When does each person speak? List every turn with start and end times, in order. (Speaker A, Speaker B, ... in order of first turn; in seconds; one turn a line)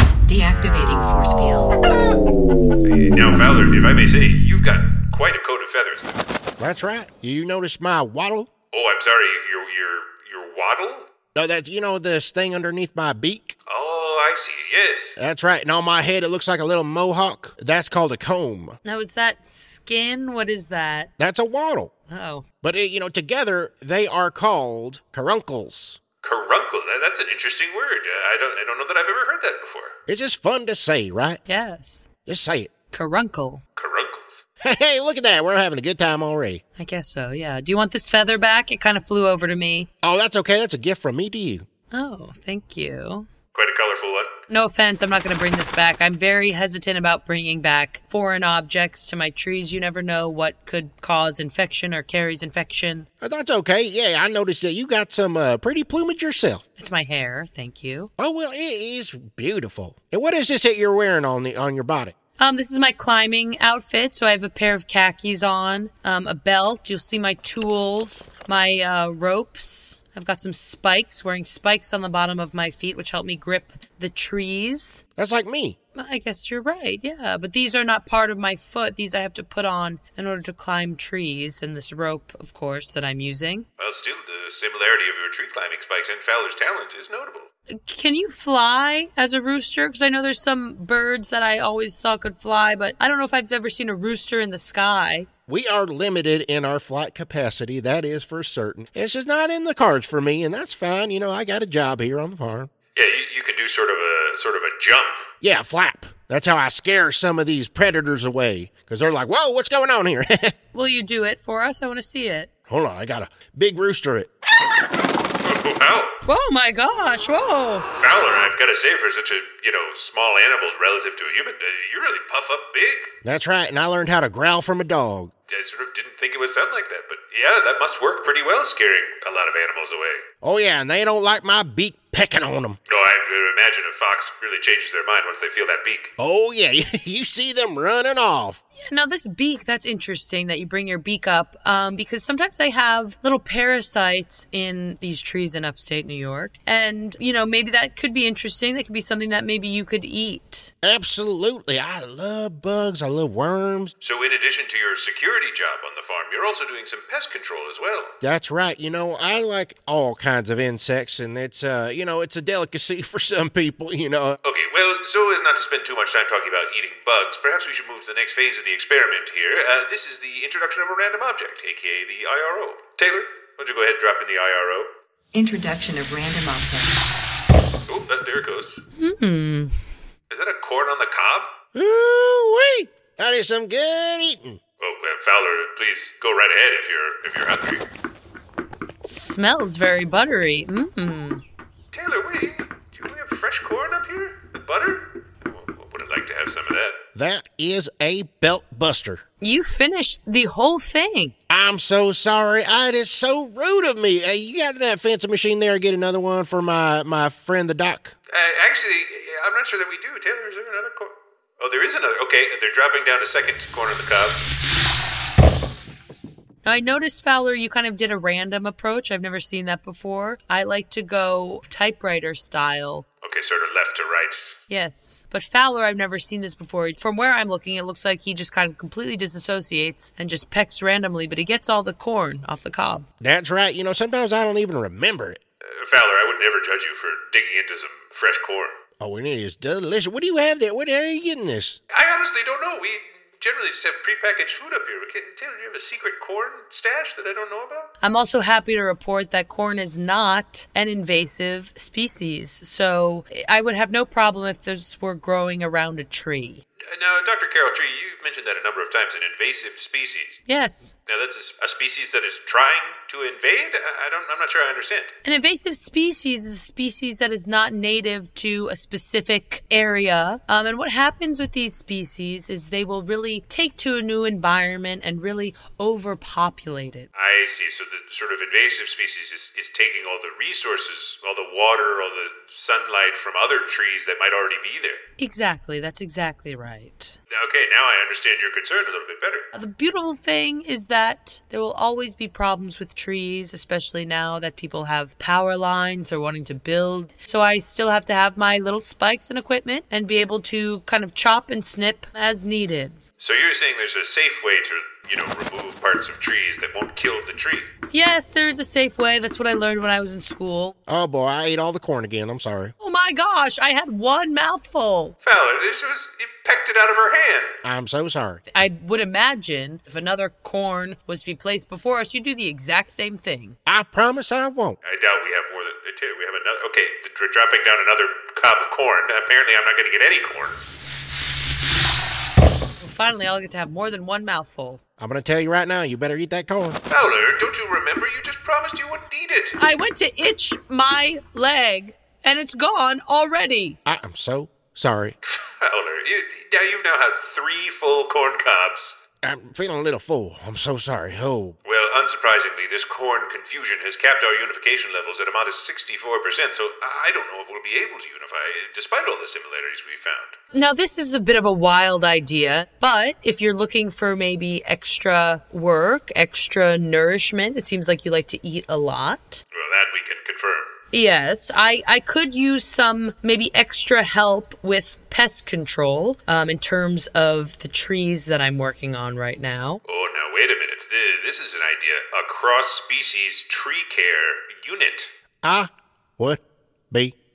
Speaker A: 0.3-1.7
Speaker B: 2.8-6.2
Speaker C: 6.6-8.5
Speaker B: 8.7-11.1
Speaker C: 11.3-13.6
Speaker B: 13.7-15.2
Speaker C: 15.2-18.8
Speaker D: 18.8-21.1
Speaker C: 21.2-21.9
Speaker D: 22.1-22.4
Speaker C: 22.6-26.0
Speaker B: 26.2-29.9
Speaker C: 30.1-31.4
Speaker D: 31.4-32.0
Speaker C: 32.2-32.7
Speaker D: 32.9-33.6
Speaker B: 33.8-34.4
Speaker C: 34.6-36.6
Speaker D: 36.8-39.9
Speaker C: 40.0-41.6
Speaker D: 41.9-43.3
Speaker B: 43.5-44.3
Speaker D: 44.5-53.1
Speaker C: 53.2-56.6
Speaker D: 56.8-58.1
Speaker C: 58.2-62.1
Speaker D: 62.4-75.0
Speaker C: 75.2-75.8
Speaker D: 75.9-83.7
Speaker B: 83.8-87.5
Speaker D: 87.7-95.3
Speaker C: 95.5-102.7
Speaker B: 102.9-105.2
Speaker C: 105.4-110.5
Speaker D: 110.7-112.5
Speaker C: 112.7-114.3
Speaker B: 115.4-116.1
Speaker D: 116.2-117.9
Speaker B: 117.9-123.1
Speaker C: 123.2-125.3
Speaker B: 125.5-130.2
Speaker C: 130.4-132.8
Speaker B: 132.9-136.1
Speaker C: 136.2-138.6
Speaker D: 138.8-150.7
Speaker C: 150.8-153.9
Speaker B: 154.0-158.1
Speaker C: 158.2-164.4
Speaker B: 164.4-174.9
Speaker A: 175.3-177.0
Speaker B: 177.9-178.8
Speaker D: 179.0-179.8
Speaker B: 180.3-181.5
Speaker C: 181.7-184.6
Speaker B: 184.8-187.8
Speaker D: 189.0-191.4
Speaker B: 191.9-197.0
Speaker C: 197.1-199.2
Speaker D: 199.4-201.3
Speaker C: 201.5-208.1
Speaker B: 208.3-214.5
Speaker D: 216.6-223.1
Speaker B: 223.2-224.6
Speaker D: 224.7-233.1
Speaker C: 233.2-235.4
Speaker B: 235.7-238.8
Speaker C: 239.0-241.8
Speaker B: 241.9-247.9
Speaker D: 248.0-256.6
Speaker B: 256.9-260.4
Speaker D: 260.4-260.9
Speaker B: 261.1-265.1
Speaker D: 265.2-277.1
Speaker B: 277.1-285.0
Speaker D: 285.2-287.2
Speaker B: 287.3-289.4
Speaker D: 289.5-303.0
Speaker B: 303.2-307.7
Speaker D: 307.9-310.7
Speaker C: 310.9-312.7
Speaker D: 312.8-315.1
Speaker B: 315.2-317.5
Speaker C: 317.6-318.4
Speaker D: 318.5-323.6
Speaker C: 323.6-324.8
Speaker B: 324.8-330.6
Speaker D: 332.8-334.8
Speaker C: 335.0-336.8
Speaker B: 336.9-339.6
Speaker D: 339.6-343.8
Speaker C: 343.8-345.1
Speaker B: 345.2-349.0
Speaker C: 349.2-351.6
Speaker B: 351.6-360.4
Speaker D: 360.5-369.4
Speaker B: 369.5-370.7
Speaker D: 370.9-379.8
Speaker B: 379.8-385.1
Speaker C: 385.4-387.1